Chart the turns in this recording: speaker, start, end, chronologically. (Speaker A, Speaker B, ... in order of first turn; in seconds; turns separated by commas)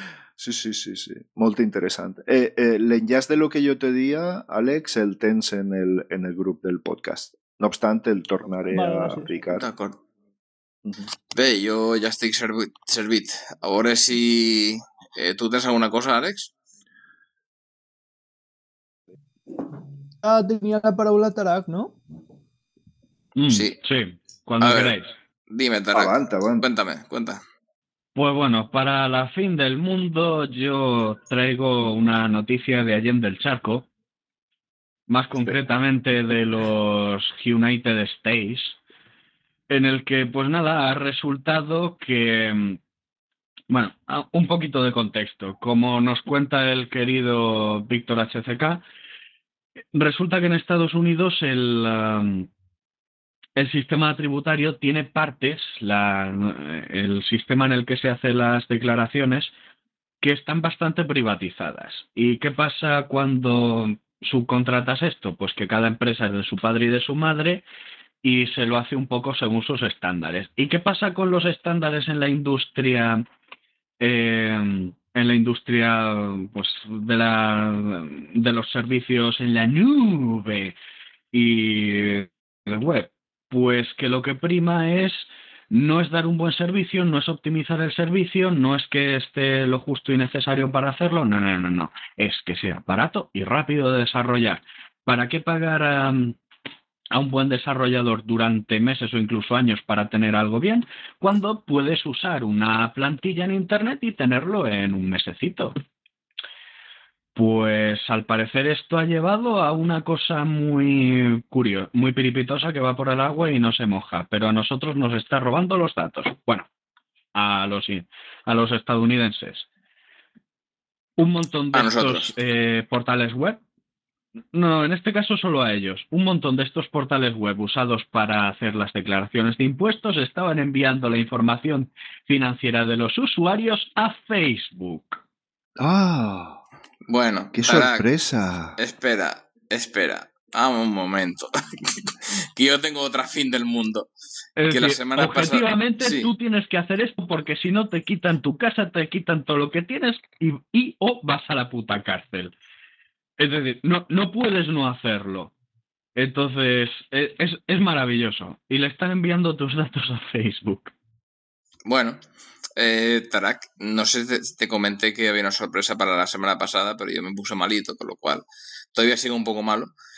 Speaker A: 0.4-9.7, Speaker B: 8.7-9.3, Speaker C: 9.6-10.0, Speaker C: 11.3-16.5, Speaker B: 20.2-22.0, Speaker D: 23.4-25.1, Speaker C: 23.5-23.8, Speaker C: 24.6-24.9, Speaker C: 25.5-27.4, Speaker A: 25.9-26.6, Speaker D: 28.1-33.9, Speaker D: 35.1-38.8, Speaker D: 39.7-42.8, Speaker D: 43.7-48.8, Speaker D: 49.9-52.5, Speaker D: 53.6-59.5, Speaker D: 60.2-67.6, Speaker D: 68.2-73.2, Speaker D: 74.0-80.8, Speaker D: 81.3-96.4, Speaker D: 97.1-105.8, Speaker D: 107.3-116.7, Speaker D: 117.3-119.7, Speaker D: 121.2-123.6, Speaker C: 121.7-122.3, Speaker D: 124.5-135.2, Speaker A: 135.8-136.6, Speaker C: 137.1-138.1, Speaker A: 137.5-138.8, Speaker C: 138.8-144.1, Speaker D: 144.6-152.5, Speaker C: 144.7-146.3, Speaker D: 153.4-155.5, Speaker D: 156.2-160.9, Speaker C: 161.9-162.2, Speaker C: 162.8-169.9